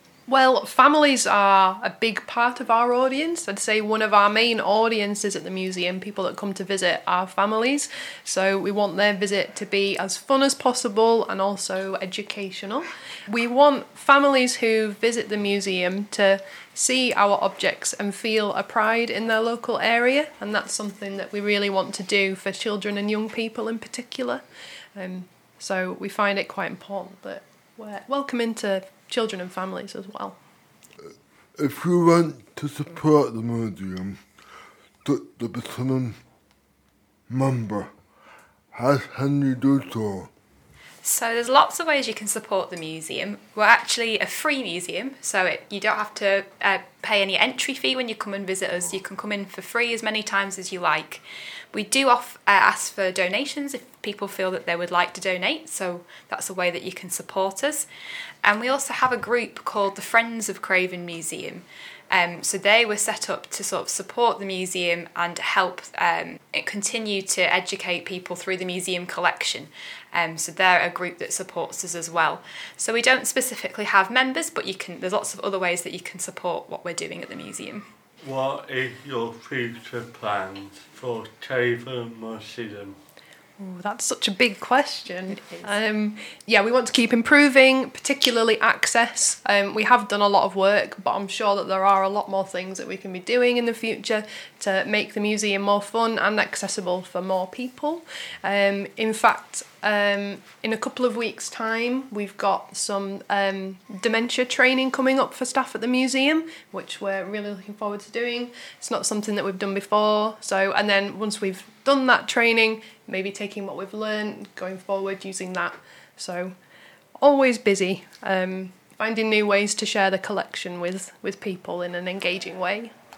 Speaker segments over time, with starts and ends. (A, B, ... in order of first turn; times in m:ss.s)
0:00.3-0:24.4 A
0:25.0-0:30.4 A
0:31.6-0:34.2 B
0:35.0-0:36.2 B
0:37.3-0:37.9 B
0:38.7-0:40.3 B
0:41.0-0:57.9 C
0:58.4-1:17.8 C
1:18.2-1:23.0 D
1:23.6-1:56.5 A
1:25.3-1:25.8 C
1:57.2-2:02.9 A